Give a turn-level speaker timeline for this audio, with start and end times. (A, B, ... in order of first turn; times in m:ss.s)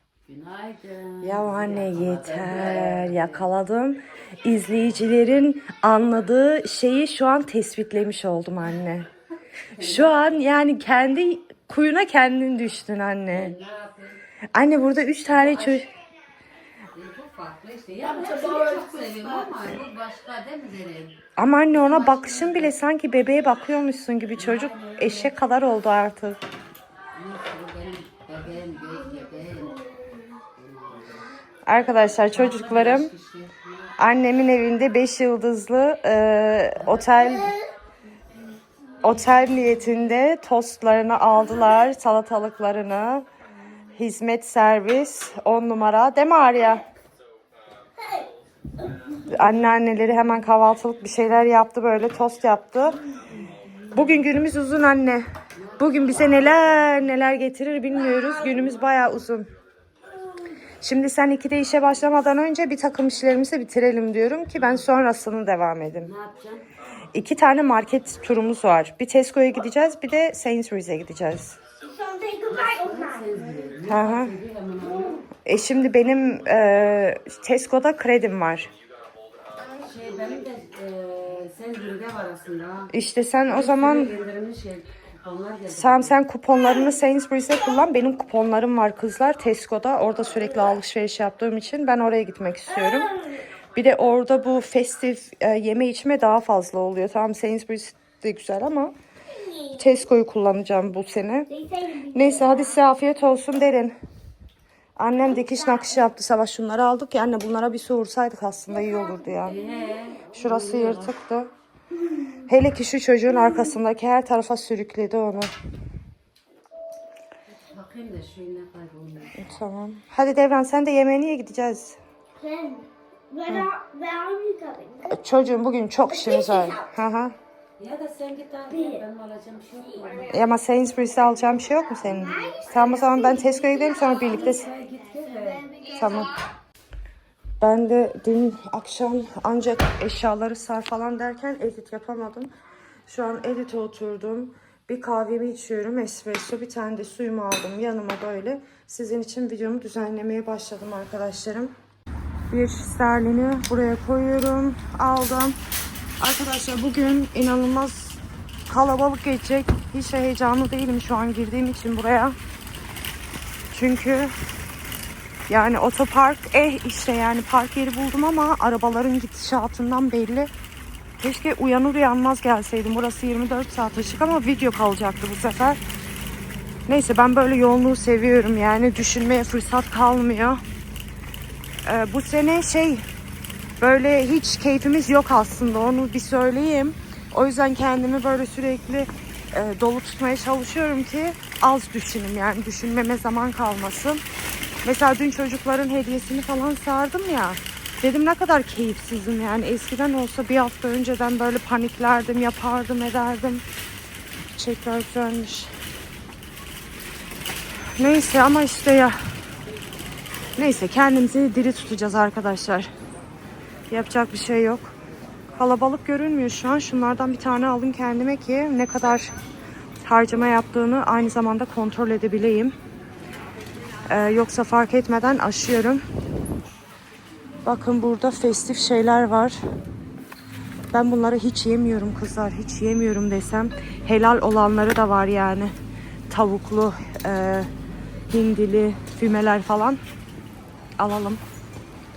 0:00.2-0:03.4 A
0:01.2-0:09.1 B
0:09.8-0:10.2 A
0:09.8-0:13.6 B
0:13.3-0:14.2 A
0:14.5-0:15.9 B
0:15.3-0:15.8 A
0:16.9-0:21.2 A
0:18.0-0:19.5 C
0:21.4-0:26.4 B
0:21.7-0:22.7 A
0:24.4-0:25.3 A
0:27.1-0:29.8 A
0:30.5-0:31.1 A
0:31.7-0:33.1 B
0:32.3-0:33.9 A
0:34.0-0:37.6 B
0:39.0-0:43.2 B
0:44.0-0:46.8 B
0:49.3-0:53.0 B
0:53.9-0:55.2 B
0:55.6-0:56.8 A
0:55.8-0:59.5 B
1:00.8-1:06.1 B
1:06.0-1:06.6 A
1:07.1-1:11.6 B
1:11.8-1:13.3 C
1:12.5-1:15.2 A
1:13.8-1:14.3 B
1:15.4-1:18.7 B
1:19.8-1:22.9 A
1:22.9-1:24.1 B
1:23.5-1:26.1 A
1:25.7-1:33.1 B
1:32.8-1:33.4 C
1:33.7-1:38.9 B
1:39.3-1:39.7 C
1:39.8-1:41.5 B
1:41.5-1:42.8 C
1:42.1-1:44.0 B
1:45.0-1:49.6 B
1:45.5-1:45.8 C
1:49.4-1:51.1 A
1:50.3-1:51.5 B
1:52.5-1:55.5 B
1:57.5-1:59.4 A
1:59.3-2:02.0 B
2:02.4-2:05.2 C
2:05.1-2:07.3 B
2:06.1-2:06.9 C
2:07.8-2:10.4 A
2:08.7-2:09.0 C
2:10.0-2:10.3 C
2:10.3-2:14.7 B
2:12.1-2:16.3 C
2:14.2-2:15.6 A
2:15.9-2:16.3 B
2:17.6-2:22.5 B
2:23.1-2:31.7 B
2:32.5-2:35.6 B
2:36.2-2:42.4 B
2:43.7-2:44.3 B
2:45.5-2:50.5 B
2:51.2-2:55.8 B
2:56.9-3:00.6 B
3:01.8-3:03.0 B
3:03.8-3:14.2 B
3:14.8-3:23.6 B
3:24.6-3:25.7 B
3:28.0-3:29.2 B
3:30.6-3:32.9 B
3:33.9-3:34.9 B
3:35.6-3:39.3 B
3:40.0-3:42.8 B
3:44.1-3:46.0 B
3:47.6-3:49.6 B
3:50.9-3:55.7 B
3:56.3-3:57.7 B
3:58.3-4:00.0 B
4:01.0-4:01.4 B